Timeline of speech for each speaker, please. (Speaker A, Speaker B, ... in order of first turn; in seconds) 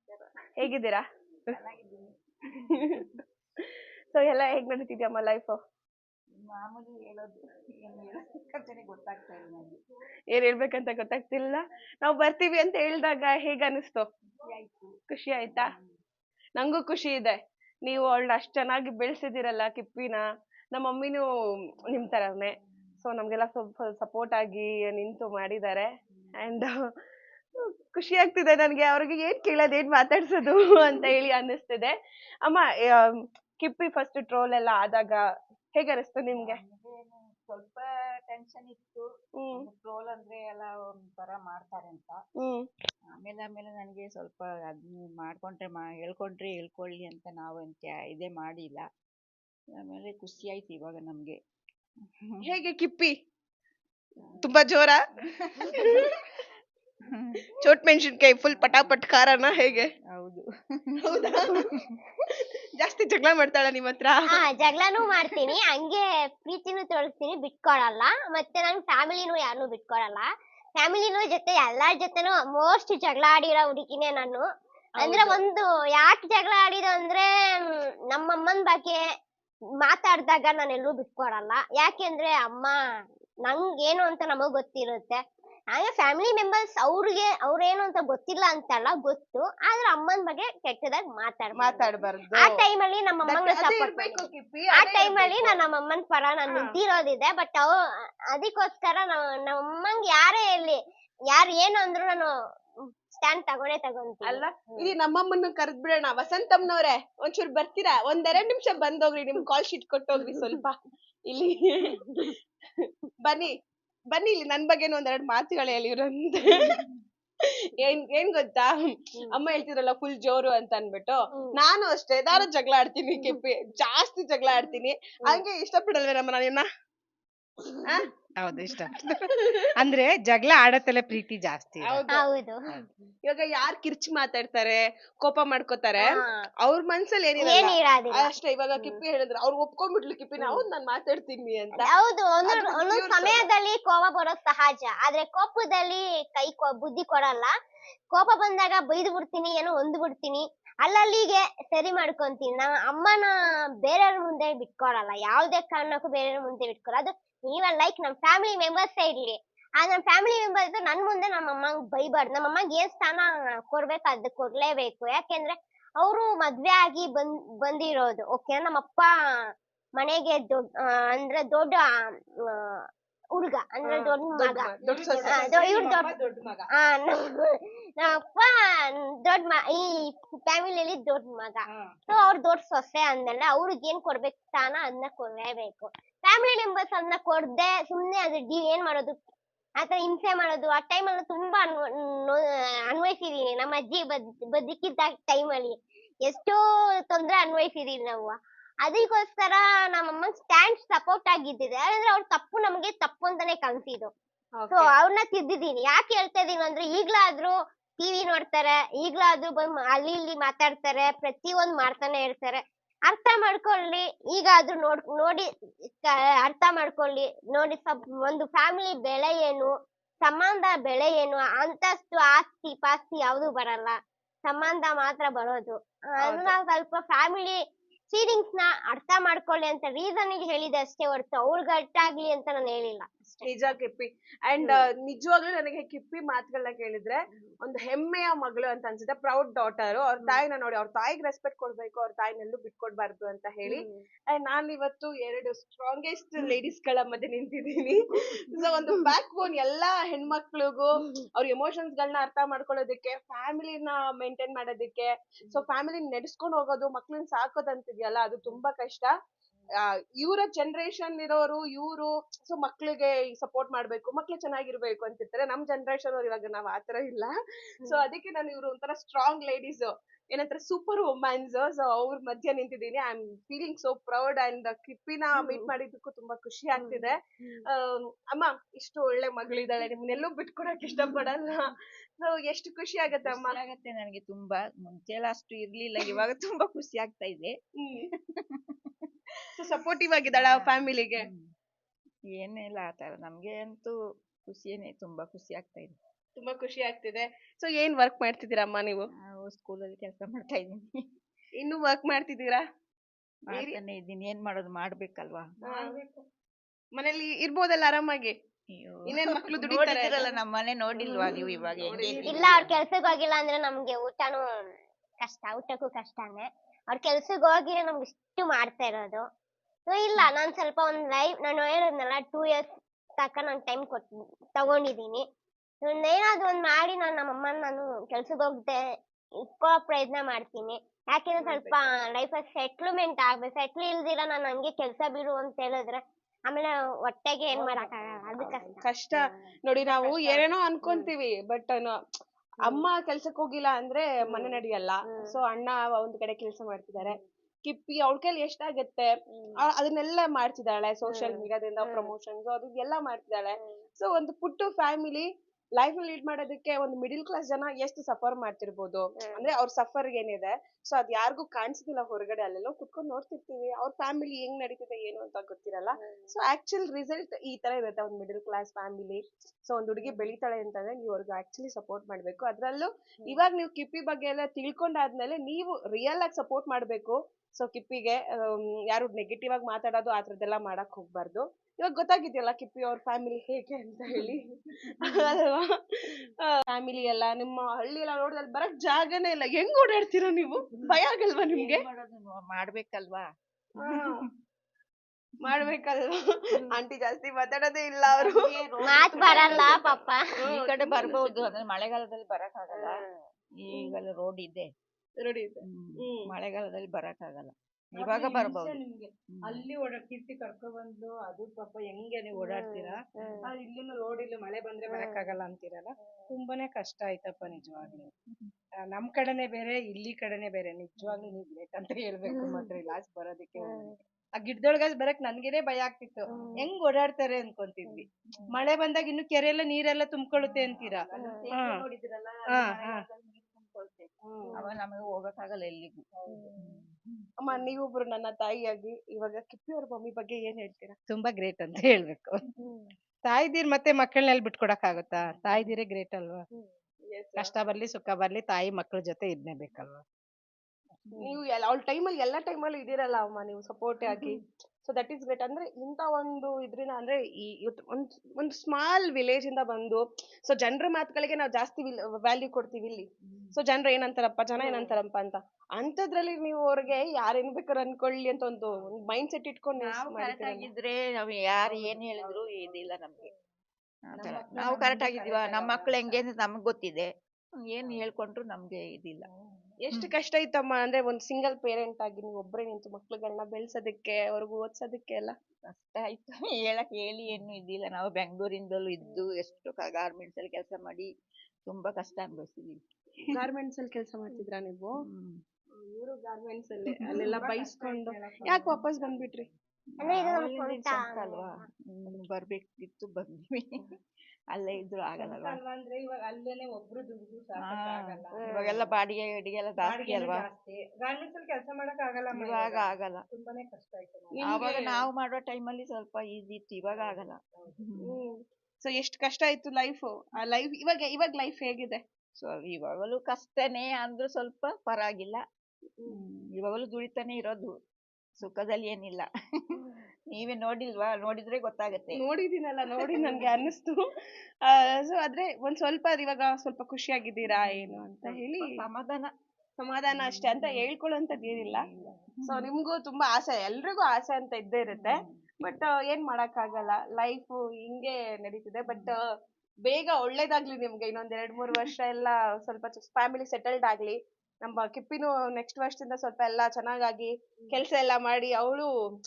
Speaker A: 0.6-1.0, 2.8-3.1, 4.1-5.6, 10.3-14.1, 15.1-15.7, 16.6-21.2, 21.9-25.9, 26.4-26.7, 27.9-35.2, 35.7-36.6, 39.4-39.7, 42.4-42.7, 52.4-53.1, 54.4-55.0, 55.6-56.1, 57.6-59.9, 61.0-61.6, 62.4-64.4, 75.0-75.4, 91.6-92.6, 93.2-95.6, 96.5-96.8, 104.2-110.8, 111.3-112.0, 113.2-113.5, 114.1-116.6, 117.8-118.8, 119.3-126.7, 129.1-129.5, 131.8-132.3, 133.3-141.9, 142.4-143.5, 173.8-175.9, 204.6-204.9, 226.2-226.6, 233.4-259.1, 260.2-267.3, 267.9-277.2, 277.7-283.6, 287.8-288.1, 289.6-291.3, 296.4-299.1, 301.6-302.6, 303.5-303.8, 305.6-306.0, 307.0-308.3, 309.1-310.3, 311.8-312.5, 331.4-331.8, 338.8-342.0, 342.6-384.4, 385.0-385.7, 386.6-391.9, 393.8-394.2, 395.4-396.2, 396.7-399.8, 400.4-401.4, 405.2-406.3, 437.4-441.0, 447.1-447.5, 451.2-470.7, 479.8-485.4, 493.3-495.0, 495.8-499.5, 514.4-515.0, 518.1-522.0, 532.1-534.0, 534.6-538.7, 539.8-541.9, 542.5-549.2, 549.9-558.9
Speaker B: 1.5-3.1, 6.4-9.8, 14.4-14.9, 15.5-15.9, 36.4-42.2, 43.1-48.9, 49.8-51.4, 54.2-54.5, 55.4-56.2, 57.0-57.5, 58.5-62.0, 280.9-281.1, 283.1-287.5, 288.4-288.9, 290.3-291.5, 292.3-296.0, 299.3-301.0, 303.5-305.4, 308.8-312.8, 391.4-393.3, 398.1-403.1, 403.6-404.7, 405.6-408.8, 409.4-409.7, 417.4-418.5, 421.0-421.3, 430.4-437.2, 445.2-445.8, 454.1-454.4, 463.3-463.6, 469.8-473.3, 474.1-479.3, 485.7-491.1, 491.7-492.8, 495.0-495.4, 500.0-503.8, 504.5-505.6, 507.6-510.5, 512.3-513.2, 514.4-518.1, 522.4-525.4, 526.1-527.7, 528.4-532.2, 533.0-533.6, 537.5-539.3, 540.1-542.7, 544.9-545.4, 548.9-549.1
Speaker C: 64.3-74.5, 75.0-79.0, 79.8-82.7, 83.5-85.2, 85.7-94.2, 94.7-97.7, 98.3-105.0, 112.0-112.3, 132.1-133.1, 136.0-136.4, 137.4-139.0, 141.8-147.5, 148.1-153.3, 153.8-169.1, 170.0-174.7, 175.3-176.2, 176.7-189.2, 189.8-204.1, 204.7-219.7, 220.2-233.5, 234.6-234.8, 243.7-244.0, 275.4-275.7, 276.8-277.6, 311.0-311.4, 312.3-319.2, 319.9-322.7, 323.2-325.2, 325.8-328.8, 329.5-339.4, 340.8-341.1, 344.3-345.3, 351.1-352.1, 353.6-353.8, 359.2-359.5, 366.0-366.3, 370.0-370.3, 398.9-400.2, 402.7-403.0, 412.3-413.5, 414.9-415.4, 422.3-422.7, 423.6-424.0, 426.3-426.6, 431.1-431.4, 464.6-465.0, 500.0-501.6, 508.4-508.7
Speaker D: 128.4-132.0, 174.8-176.7, 181.7-182.2, 305.6-306.3, 311.9-312.6, 337.5-338.7, 340.1-340.5, 408.0-418.1, 418.9-431.8, 432.5-433.0, 436.2-436.8, 441.1-442.4, 443.2-446.5, 447.4-450.0, 451.0-451.3, 471.6-473.4, 474.2-476.2, 477.8-478.1, 479.2-479.8, 497.0-499.6, 505.2-508.9, 509.8-514.7, 516.9-517.8